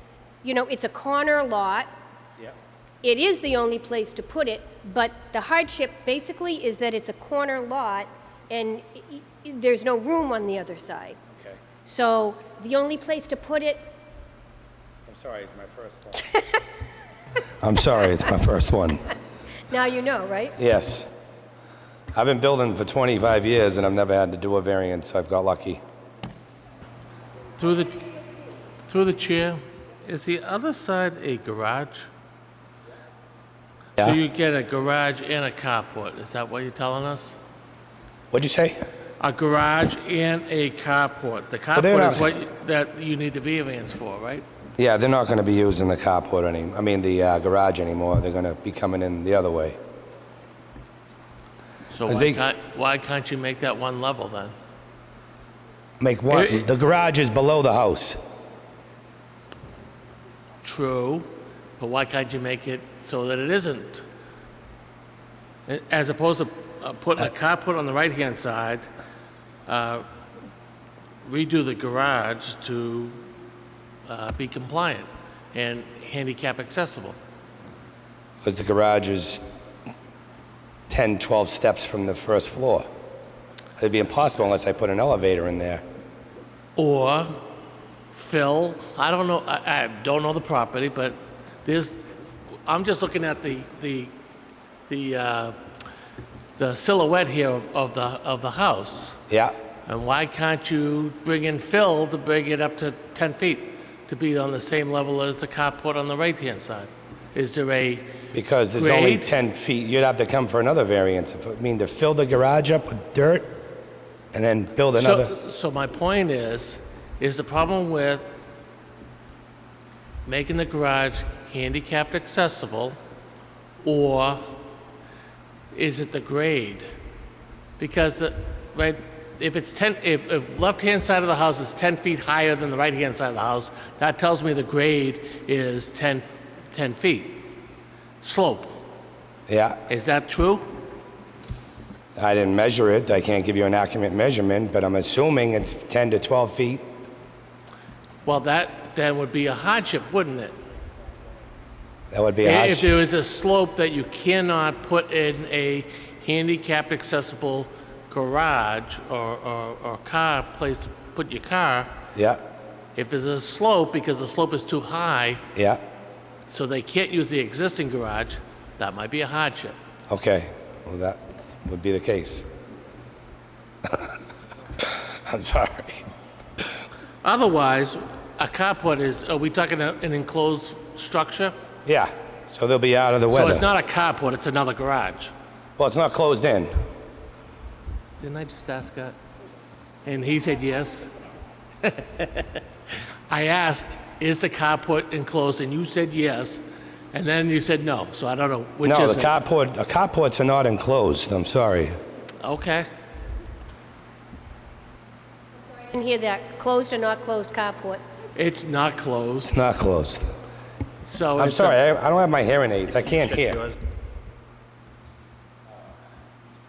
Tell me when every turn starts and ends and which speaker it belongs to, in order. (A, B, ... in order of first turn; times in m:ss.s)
0:00.4-0:01.9 A
0:03.0-0:11.2 A
0:11.8-0:13.9 A
0:15.1-0:16.2 B
0:17.6-0:19.1 B
0:19.7-0:20.6 A
0:20.6-0:21.1 B
0:22.1-0:25.8 B
0:27.6-0:28.1 C
0:28.9-0:32.1 C
0:34.0-0:37.4 C
0:38.3-0:38.8 B
0:39.2-0:44.5 C
0:41.7-0:42.3 B
0:44.8-0:49.8 B
0:51.9-0:54.5 C
0:52.0-0:52.4 B
0:56.0-0:58.2 B
0:56.3-0:56.6 C
1:00.6-1:04.0 C
1:05.7-1:08.9 C
1:09.6-1:10.0 C
1:11.2-1:13.2 C
1:14.0-1:17.2 C
1:18.4-1:19.4 B
1:20.9-1:22.9 B
1:23.8-1:25.8 B
1:26.8-1:27.4 C
1:28.1-1:32.0 C
1:32.6-1:34.1 C
1:34.9-1:35.6 C
1:36.6-1:39.2 C
1:39.3-1:39.6 B
1:39.8-1:48.1 C
1:48.3-1:53.5 B
1:48.8-1:49.3 C
1:54.3-1:55.3 B
1:54.9-1:58.3 C
2:00.2-2:03.0 C
2:03.8-2:04.6 C
2:05.7-2:06.8 C
2:07.8-2:17.6 C
2:18.2-2:18.8 C
2:19.5-2:19.8 B
2:19.9-2:20.8 C
2:22.2-2:26.8 B
2:28.2-2:30.5 C
2:32.1-2:32.9 B
2:32.4-2:41.9 C
2:42.1-2:42.4 B
2:43.0-2:45.4 C
2:45.6-2:45.8 B
2:46.5-2:49.8 C
2:50.1-2:52.5 B
2:54.8-2:56.0 B
2:57.2-3:01.5 C
3:01.8-3:03.6 B
3:03.3-3:05.3 C
3:05.8-3:06.7 B
3:08.2-3:09.2 C
3:10.0-3:11.1 C
3:11.8-3:19.3 C
3:18.8-3:22.0 B
3:22.4-3:22.9 C
3:25.7-3:28.0 A
3:28.3-3:29.6 C
3:29.4-3:30.3 B
3:31.0-3:31.8 C
3:31.4-3:33.6 B